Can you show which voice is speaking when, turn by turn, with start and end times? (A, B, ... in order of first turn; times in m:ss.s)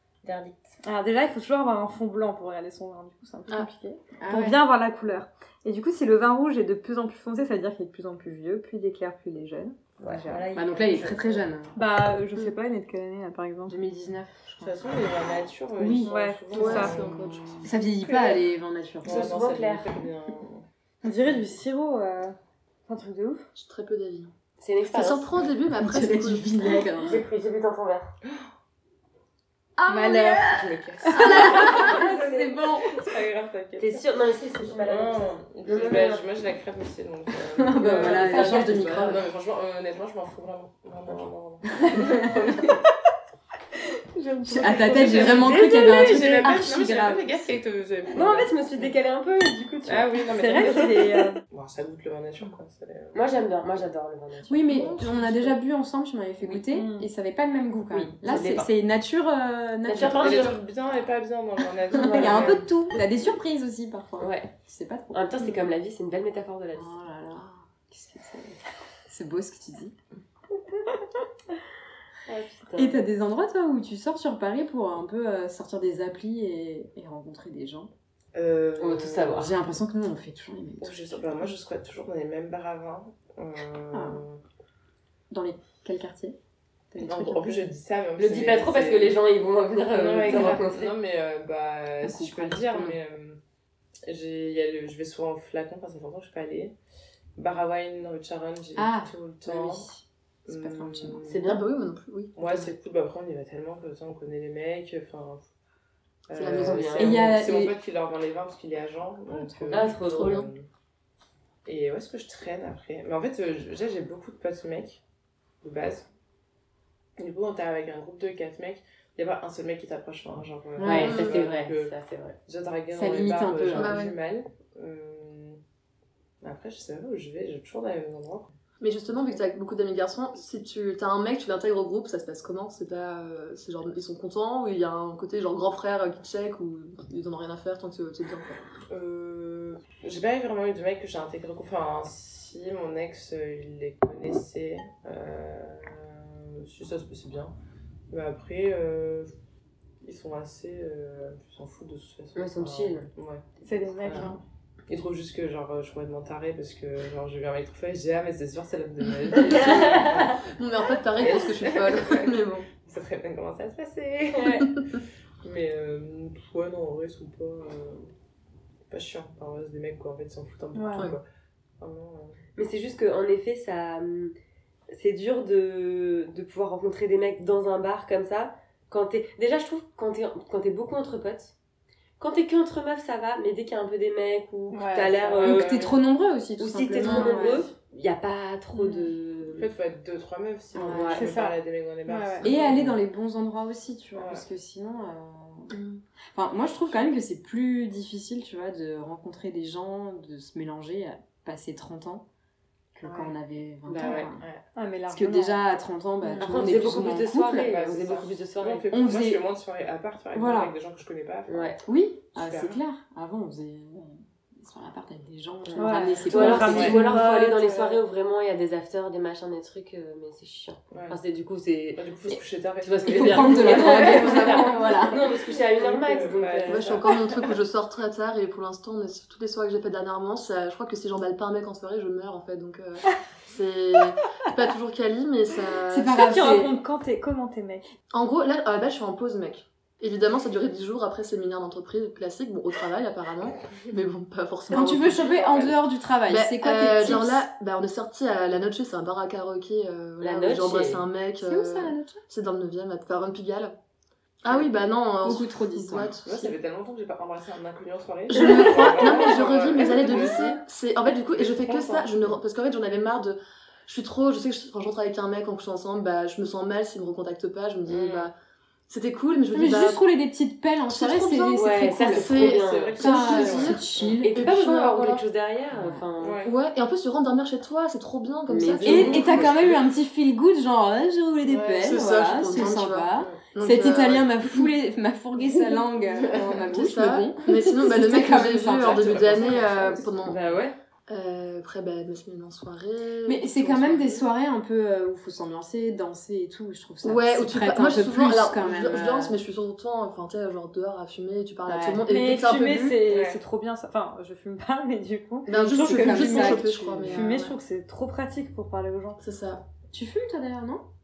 0:00.2-0:00.7 A
0:00.8-0:10.4 B
0:04.2-0:04.6 C
0:10.0-0:11.4 A
0:10.5-0:11.7 C
0:11.7-0:13.8 B
0:13.7-0:14.8 C
0:14.6-0:18.4 D
0:15.8-0:16.1 C
0:16.0-0:17.0 B
0:16.5-0:17.7 E
0:17.6-0:19.4 C
0:19.0-0:20.6 D
0:19.0-0:19.9 A
0:21.0-0:22.4 B
0:22.9-0:23.5 B
0:23.5-0:24.3 E
0:24.6-0:25.3 A
0:24.8-0:26.7 E
0:25.8-0:27.2 C
0:27.0-0:28.1 A
0:29.8-0:33.0 C
0:29.9-0:30.5 B
0:30.2-0:34.0 D
0:31.2-0:32.2 A
0:33.8-0:36.3 A
0:34.7-0:42.8 D
0:37.5-0:39.2 C
0:37.8-0:39.2 A
0:41.8-0:42.2 C
0:44.1-0:46.2 B
0:44.6-0:47.5 C
0:44.6-0:48.9 D
0:48.1-0:50.8 A
0:49.8-0:53.4 D
0:50.2-0:51.4 B
0:53.1-0:54.6 A
0:54.5-1:00.4 C
0:54.7-0:55.0 E
0:56.6-0:57.1 B
0:57.9-0:58.7 A
0:59.8-1:00.6 A
1:00.0-1:02.6 D
1:01.9-1:02.6 A
1:02.0-1:05.5 C
1:04.2-1:04.5 A
1:05.1-1:06.9 A
1:06.8-1:09.9 C
1:12.3-1:13.1 A
1:12.8-1:17.9 C
1:18.3-1:19.5 D
1:18.8-1:19.6 A
1:19.3-1:21.2 C
1:20.8-1:24.4 D
1:23.9-1:24.2 C
1:25.3-1:26.4 C
1:26.9-1:27.7 C
1:27.0-1:29.2 D
1:28.2-1:30.9 A
1:29.9-1:33.4 D
1:30.3-1:30.7 C
1:32.0-1:33.0 C
1:34.0-1:36.7 D
1:37.4-1:39.9 D
1:38.8-1:41.2 C
1:40.4-1:41.5 D
1:41.3-1:41.6 A
1:41.4-1:42.7 E
1:42.4-1:45.4 D
1:46.3-1:50.6 D
1:46.3-1:47.3 E
1:46.4-1:47.3 A
1:47.0-1:47.8 C
1:49.7-1:50.4 A
1:49.7-1:50.5 E
1:51.6-1:55.0 D
1:55.6-1:56.1 D
1:57.2-2:01.9 D
2:00.8-2:01.2 C
2:00.8-2:02.4 A
2:01.0-2:01.4 E
2:02.5-2:05.6 D
2:02.9-2:04.0 C
2:03.7-2:04.1 E
2:06.4-2:08.5 D
2:08.8-2:18.6 E
2:18.9-2:27.5 D
2:28.1-2:29.3 D
2:30.0-2:34.4 D
2:32.4-2:33.1 A
2:33.6-2:34.4 B
2:34.9-2:40.5 D
2:39.3-2:42.7 E
2:39.7-2:40.1 A
2:41.2-2:44.8 D
2:44.3-2:44.7 A
2:45.4-2:48.1 D
2:48.9-2:51.2 D
2:50.7-2:51.1 B
2:51.8-2:52.4 D
2:52.6-2:54.3 A
2:54.9-3:01.5 A
3:02.2-3:05.9 A
3:04.7-3:05.4 B
3:05.3-3:05.9 D
3:05.4-3:07.7 C
3:06.6-3:09.7 A
3:07.0-3:07.3 E
3:09.5-3:13.0 D
3:10.7-3:11.3 C
3:10.9-3:11.5 A
3:11.2-3:11.5 B
3:12.0-3:12.5 B
3:12.4-3:15.8 C
3:14.1-3:14.4 D
3:15.7-3:16.0 E
3:16.3-3:22.2 C
3:22.9-3:24.4 C
3:23.0-3:23.3 D
3:23.9-3:24.6 D
3:23.9-3:24.2 A
3:24.8-3:25.6 B
3:25.1-3:27.7 C
3:26.2-3:26.6 B
3:26.4-3:28.8 A
3:27.6-3:31.8 D
3:28.9-3:29.4 C
3:30.3-3:30.7 C
3:31.5-3:31.8 A
3:31.8-3:37.1 C
3:32.3-3:32.8 D
3:35.7-3:42.1 A
3:35.8-3:37.7 B
3:36.6-3:37.0 D
3:37.6-3:37.9 D
3:40.9-3:41.2 D
3:42.0-3:44.7 D
3:42.8-3:47.0 A
3:43.1-3:45.3 C
3:44.2-3:44.5 E
3:45.6-3:47.3 D
3:46.7-3:56.6 E
3:55.9-3:56.8 C
3:56.1-3:57.8 B
3:58.1-4:05.3 E
4:04.7-4:07.4 C
4:04.7-4:05.8 D
4:06.3-4:13.7 E
4:10.2-4:11.0 A
4:11.4-4:12.2 C
4:14.4-4:16.5 E
4:15.2-4:16.1 C
4:16.0-4:20.6 D
4:18.3-4:28.3 E
4:21.3-4:22.4 D
4:27.9-4:28.3 D
4:28.9-4:30.0 E
4:29.5-4:34.3 C
4:30.9-4:35.2 E
4:31.6-4:33.0 A
4:32.5-4:34.2 D
4:34.2-4:36.5 A
4:35.7-4:36.0 C
4:36.2-4:36.6 D
4:36.4-4:39.6 E
4:38.5-4:39.4 A
4:38.8-4:49.1 C
4:38.8-4:39.8 D
4:41.4-4:41.9 D
4:41.7-4:44.7 E
4:43.2-4:43.4 D
4:46.1-4:46.6 D
4:46.6-4:50.4 E
4:48.5-4:50.4 D
4:50.2-4:50.7 A
4:51.1-4:54.2 E
4:53.2-4:59.4 C
4:57.0-5:03.0 E
5:01.6-5:02.0 C
5:02.1-5:09.2 B
5:03.1-5:03.4 D
5:05.5-5:07.5 E
5:05.5-5:07.3 C
5:09.2-5:09.6 E
5:09.9-5:10.8 C